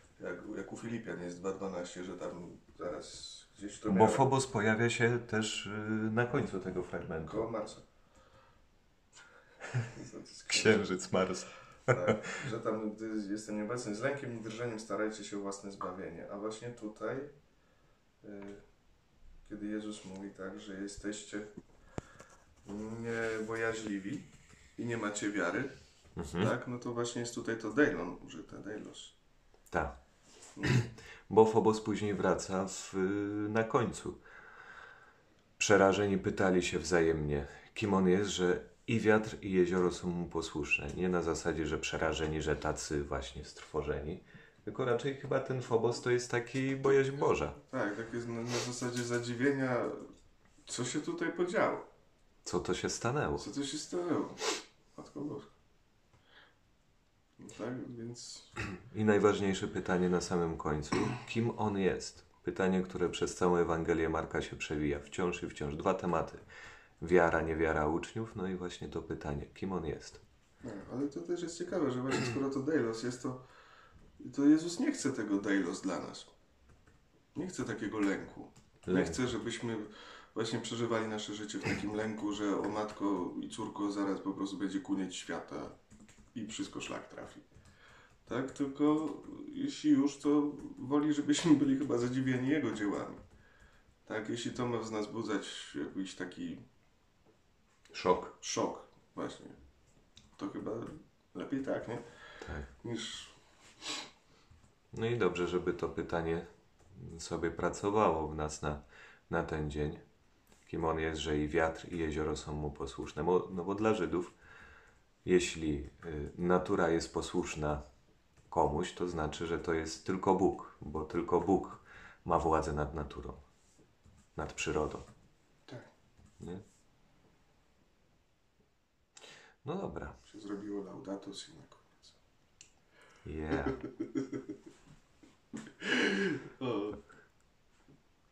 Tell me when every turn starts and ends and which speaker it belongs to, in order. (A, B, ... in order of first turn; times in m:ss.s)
0:00.2-0:04.3 A
0:03.9-0:07.4 B
0:07.2-0:07.8 A
0:09.8-0:10.9 A
0:10.5-0:12.2 B
0:11.9-0:17.3 A
0:18.2-0:18.6 A
0:19.4-0:21.5 A
0:22.6-0:25.7 A
0:26.2-0:26.5 B
0:26.4-0:29.1 A
0:29.7-0:30.0 B
0:30.6-0:30.8 A
0:30.6-0:34.2 B
0:35.6-0:47.6 B
0:47.6-0:50.1 A
0:50.6-0:51.9 A
0:52.4-0:53.5 B
0:53.4-0:55.5 A
0:57.4-0:58.6 A
0:58.8-1:06.4 B
1:07.0-1:10.2 B
1:10.6-1:13.4 A
1:14.2-1:16.3 A
1:17.3-1:25.8 A
1:18.8-1:19.3 B
1:26.3-1:27.4 A
1:28.2-1:33.2 A
1:34.0-1:36.6 A
1:37.9-1:38.3 B
1:38.4-1:39.6 A
1:40.4-1:42.2 A
1:42.4-1:42.7 B
1:42.8-1:43.4 A
1:44.9-1:50.0 B
1:50.7-1:54.4 B
1:55.2-1:57.8 B
1:58.5-2:03.4 B
2:04.4-2:05.1 B
2:09.6-2:10.2 B
2:10.2-2:12.2 A
2:13.2-2:13.8 B
2:13.9-2:14.3 A
2:15.8-2:17.0 A